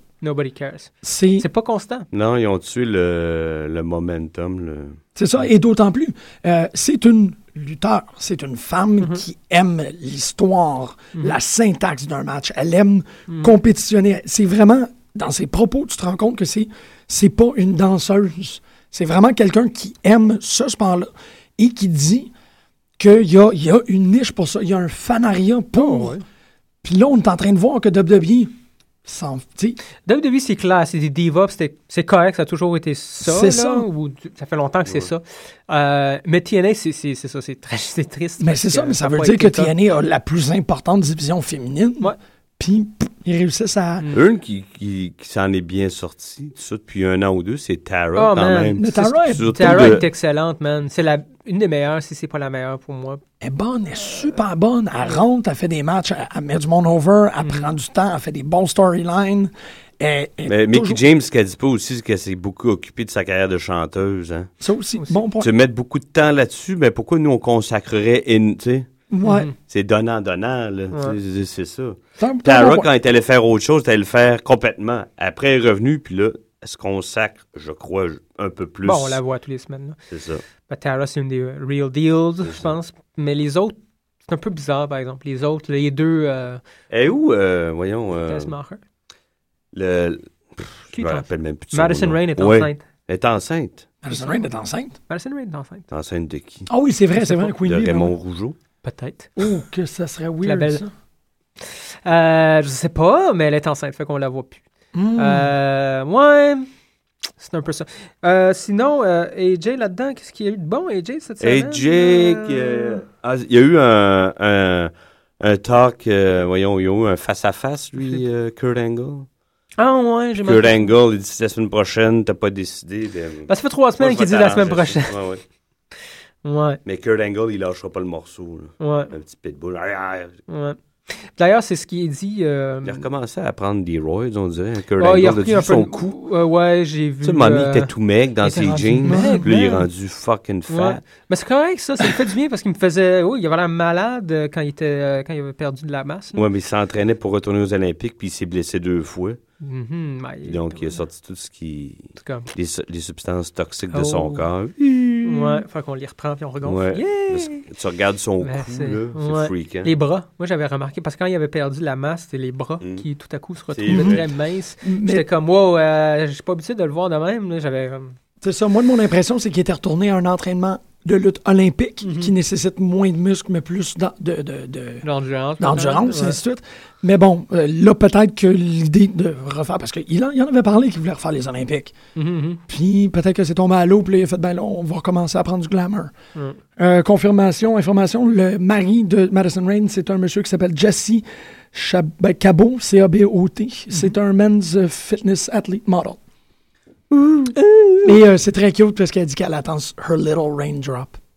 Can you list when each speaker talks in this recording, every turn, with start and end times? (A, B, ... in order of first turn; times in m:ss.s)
0:00.2-0:02.1 A
0:01.0-0:01.5 B
0:02.1-0:05.0 C
0:05.2-0:22.3 B
0:13.3-0:13.5 A
0:23.0-0:26.2 B
0:25.8-0:26.2 A
0:26.8-0:28.5 B
0:29.0-0:29.8 B
0:30.1-0:39.7 A
0:33.2-0:33.9 B
0:38.4-0:44.0 B
0:44.1-0:50.1 C
0:48.2-0:53.2 A
0:48.8-0:50.0 B
0:53.4-1:01.0 B
1:00.5-1:04.5 C
1:04.6-1:05.5 B
1:05.4-1:08.9 C
1:09.1-1:09.5 B
1:09.2-1:09.5 A
1:09.6-1:19.2 C
1:12.2-1:12.9 B
1:18.8-1:20.0 A
1:20.1-1:20.4 C
1:20.7-1:26.6 A
1:22.4-1:22.7 C
1:26.9-1:28.5 C
1:28.3-1:28.8 A
1:29.7-1:33.9 C
1:30.9-1:32.8 A
1:34.0-1:35.0 B
1:35.1-1:35.9 A
1:35.9-1:36.7 C
1:36.7-1:38.1 B
1:37.6-1:38.6 C
1:38.8-1:39.3 A
1:39.4-1:40.9 B
1:40.4-1:40.8 A
1:42.0-1:44.6 A
1:44.9-1:45.5 B
1:45.2-1:46.7 A
1:47.4-1:53.0 A
1:51.4-1:59.3 C
1:59.8-2:00.9 A
2:00.4-2:05.4 C
2:03.5-2:05.1 A
2:06.4-2:06.8 A
2:06.8-2:10.4 C
2:08.8-2:09.1 A
2:10.5-2:13.1 A
2:12.8-2:16.1 C
2:15.0-2:17.9 A
2:17.2-2:21.0 C
2:18.4-2:19.9 A
2:18.7-2:19.5 B
2:20.7-2:26.4 A
2:26.4-2:29.4 C
2:29.6-2:31.0 A
2:30.4-2:35.6 C
2:32.2-2:32.5 A
2:33.9-2:34.4 A
2:35.2-2:37.7 A
2:36.6-2:39.9 C
2:38.4-2:48.1 A
2:43.7-2:44.2 C
2:43.9-2:44.2 B
2:44.8-2:45.2 B
2:48.4-2:55.1 B
2:52.0-2:52.3 A
2:55.0-2:56.4 A
2:55.6-3:01.9 B
3:02.2-3:02.6 A
3:02.7-3:06.1 B
3:06.8-3:16.2 B
3:17.4-3:18.1 A
3:18.0-3:21.2 B